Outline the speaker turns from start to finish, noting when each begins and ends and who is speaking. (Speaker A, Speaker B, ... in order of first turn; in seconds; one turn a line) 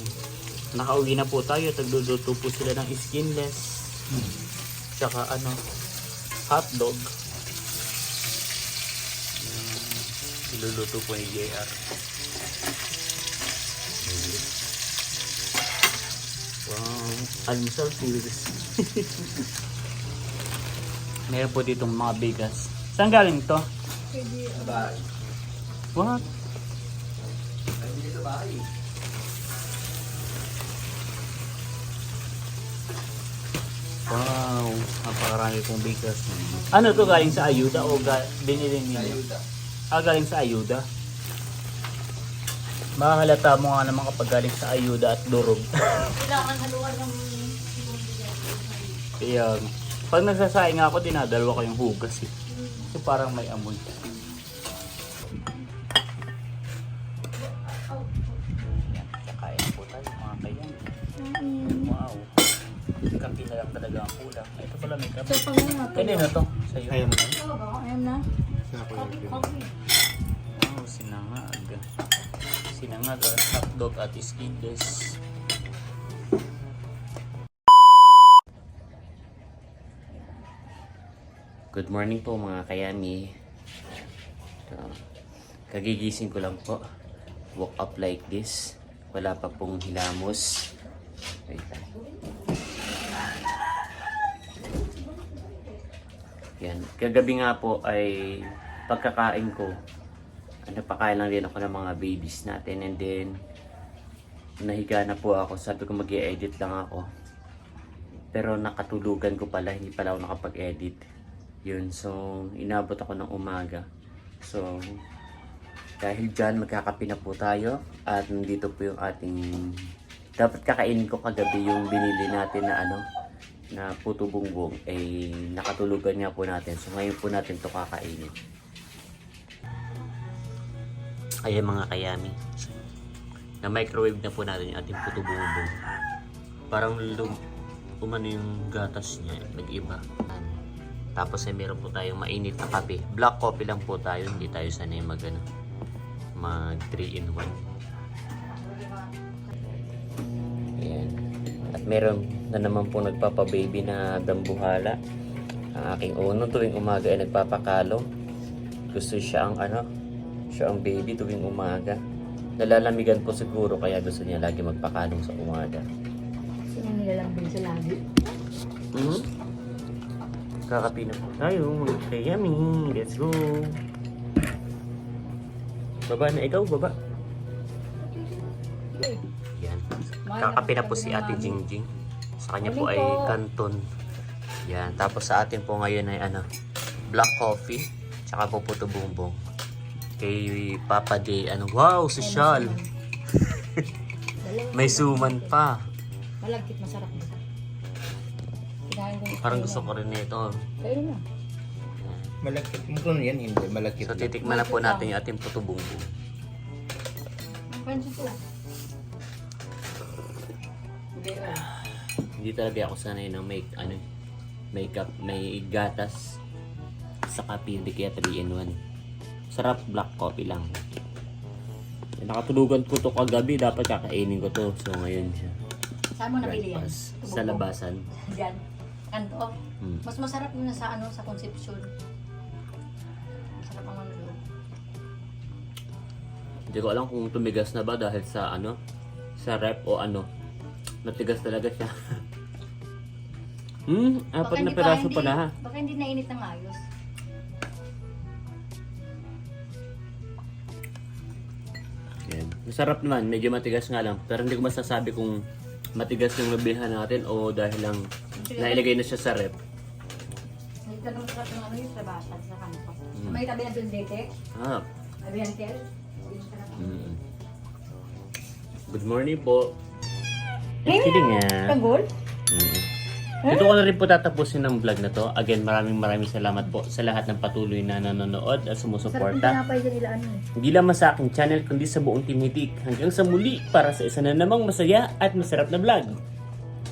Speaker A: 0.7-3.9
Speaker A: 5.0-5.6
Speaker A: 6.5-7.1
Speaker A: 9.4-11.7
Speaker B: 14.0-14.4
Speaker A: 16.7-19.2
Speaker A: 21.3-23.6
Speaker C: 24.1-24.9
Speaker D: 24.6-25.0
Speaker A: 26.0-26.2
Speaker D: 27.8-28.6
Speaker A: 34.1-39.2
Speaker D: 38.9-39.4
Speaker A: 39.9-40.8
Speaker A: 43.0-46.0
Speaker C: 46.0-49.0
Speaker A: 49.2-52.3
Speaker C: 52.5-52.9
Speaker A: 52.9-53.9
Speaker C: 57.5-58.3
Speaker A: 58.9-60.8
Speaker C: 61.2-61.9
Speaker A: 61.7-62.3
Speaker A: 63.2-67.2
Speaker C: 65.3-66.3
Speaker D: 66.9-67.3
Speaker C: 67.2-68.2
Speaker D: 68.7-69.5
Speaker C: 68.9-69.7
Speaker A: 70.6-71.8
Speaker A: 72.7-75.2
Speaker B: 81.7-83.3
Speaker B: 84.7-85.0
Speaker B: 85.7-86.8
Speaker B: 87.6-88.6
Speaker B: 89.1-90.5
Speaker B: 91.5-91.9
Speaker C: 91.9-92.3
Speaker C: 94.6-95.8
Speaker B: 96.6-99.7
Speaker B: 100.7-103.3
Speaker B: 104.6-107.0
Speaker B: 108.3-111.0
Speaker B: 111.7-113.8
Speaker B: 114.4-114.7
Speaker B: 116.0-119.4
Speaker B: 120.4-123.0
Speaker B: 123.7-128.3
Speaker B: 131.4-132.8
Speaker B: 133.6-135.7
Speaker B: 136.7-137.4
Speaker B: 138.0-140.5
Speaker B: 141.2-145.4
Speaker B: 146.4-147.6
Speaker C: 148.5-149.1
Speaker B: 150.8-151.2
Speaker B: 151.7-155.0
Speaker B: 155.8-158.0
Speaker B: 158.9-159.8
Speaker B: 160.5-162.0
Speaker B: 162.6-165.8
Speaker C: 166.7-168.0
Speaker B: 168.9-169.3
Speaker B: 170.7-173.7
Speaker B: 176.1-176.9
Speaker C: 178.0-179.2
Speaker B: 179.6-179.8
Speaker C: 180.3-181.6
Speaker B: 180.4-181.9
Speaker B: 182.4-183.8
Speaker C: 182.6-183.3
Speaker B: 184.7-186.4
Speaker B: 187.1-189.4
Speaker B: 190.2-192.8
Speaker C: 192.2-192.9
Speaker B: 193.4-193.8
Speaker C: 194.4-195.6
Speaker B: 194.7-195.8
Speaker C: 196.4-197.4
Speaker C: 198.9-199.9
Speaker B: 199.4-200.5
Speaker C: 200.8-201.2
Speaker B: 202.0-202.3
Speaker D: 202.4-204.4
Speaker B: 204.0-206.1
Speaker C: 204.4-205.1
Speaker C: 207.7-208.4
Speaker C: 211.2-211.7
Speaker B: 212.4-214.0
Speaker B: 214.7-216.2
Speaker B: 217.3-218.8
Speaker B: 219.5-220.7
Speaker B: 222.2-225.6
Speaker C: 226.2-227.7
Speaker B: 226.4-228.0
Speaker C: 228.3-228.6
Speaker C: 229.1-229.5
Speaker B: 229.8-230.1
Speaker C: 230.1-231.9
Speaker C: 233.6-234.4
Speaker B: 236.7-238.8
Speaker B: 239.4-240.3
Speaker B: 241.1-241.9
Speaker B: 243.9-245.5
Speaker C: 244.4-246.8
Speaker B: 252.3-255.4
Speaker B: 256.0-258.0
Speaker C: 258.4-258.9
Speaker B: 258.6-259.6
Speaker C: 260.9-264.3
Speaker B: 263.1-263.4
Speaker B: 264.6-264.8
Speaker C: 265.2-267.1
Speaker B: 266.8-267.2
Speaker B: 268.9-269.7
Speaker B: 270.9-271.6
Speaker C: 270.9-272.1
Speaker B: 272.5-272.9
Speaker B: 273.4-279.6
Speaker C: 279.1-280.4
Speaker B: 280.6-286.2